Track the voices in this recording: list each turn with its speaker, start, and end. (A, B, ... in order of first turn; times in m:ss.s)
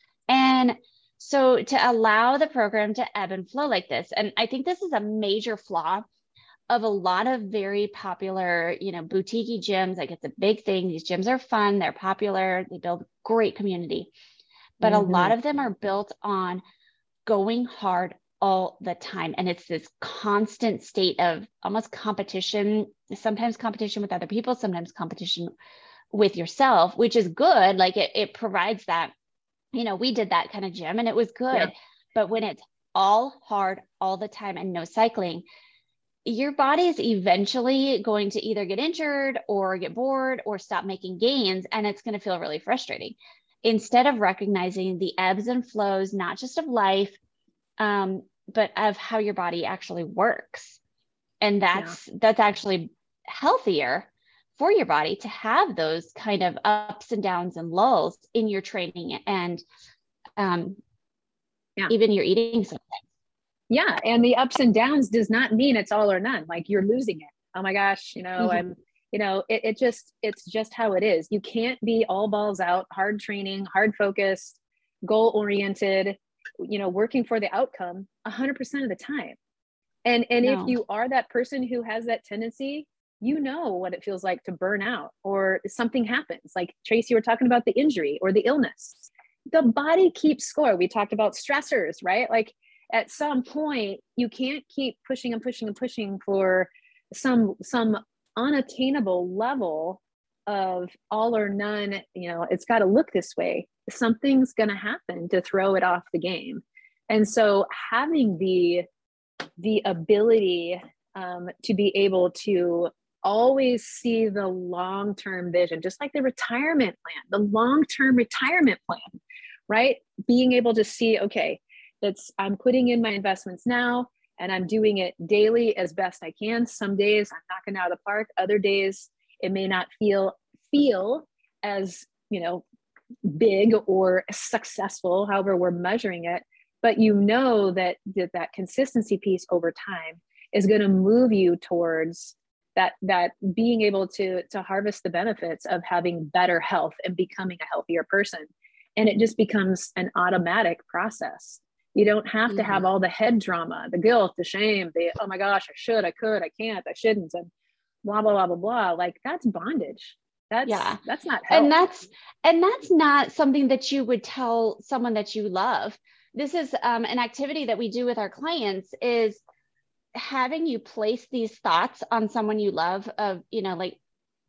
0:00.3-0:06.0 A
0:06.7-0:14.1 A
0:14.8-0:16.6 A
0:14.8-0:15.3 B
0:17.3-0:25.5 A
0:26.1-0:29.1 A
0:29.7-0:35.4 A
0:36.2-0:47.2 A
0:47.8-0:50.8 A
0:51.4-0:59.6 A
1:00.4-1:00.8 A
1:01.9-1:03.0 A
1:03.7-1:19.4 B
1:20.0-1:48.8 B
1:20.4-1:20.8 A
1:49.6-1:59.2 B
1:59.7-2:12.6 B
2:13.2-2:37.5 B
2:32.5-2:32.8 A
2:38.0-2:41.7 B
2:40.6-2:49.4 A
2:50.1-2:54.0 A